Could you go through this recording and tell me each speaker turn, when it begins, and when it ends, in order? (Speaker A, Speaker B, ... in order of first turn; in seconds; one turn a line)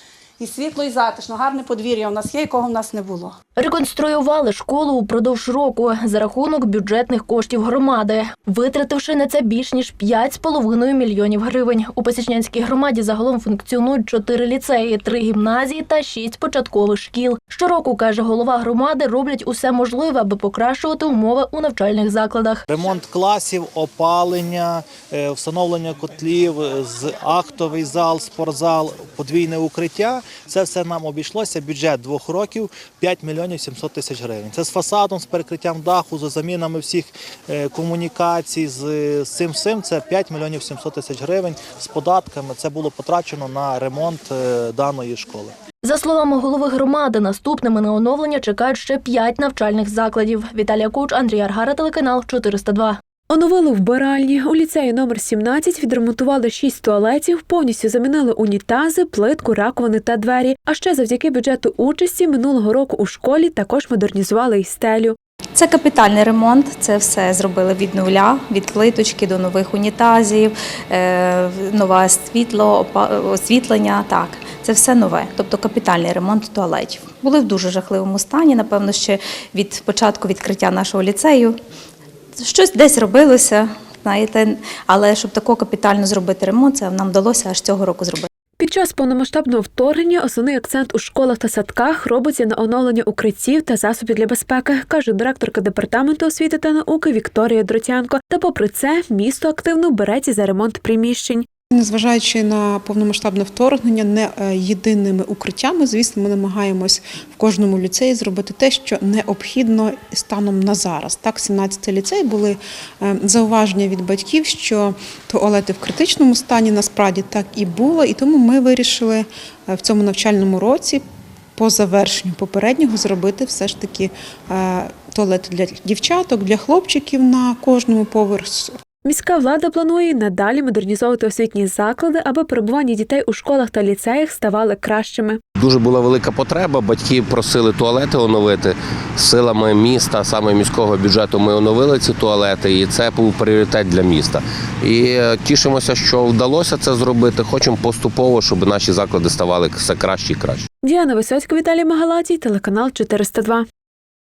Speaker A: 0.4-3.4
Speaker B: 3.6-22.6
Speaker C: 22.7-45.5
Speaker B: 45.8-53.0
Speaker D: 53.3-65.2
Speaker E: 65.5-81.6
Speaker E: 82.4-88.3
Speaker D: 88.6-101.5
Speaker F: 101.7-121.0
Speaker F: 121.6-128.8
Speaker D: 129.0-135.4
Speaker G: 135.6-150.7
Speaker D: 150.8-153.7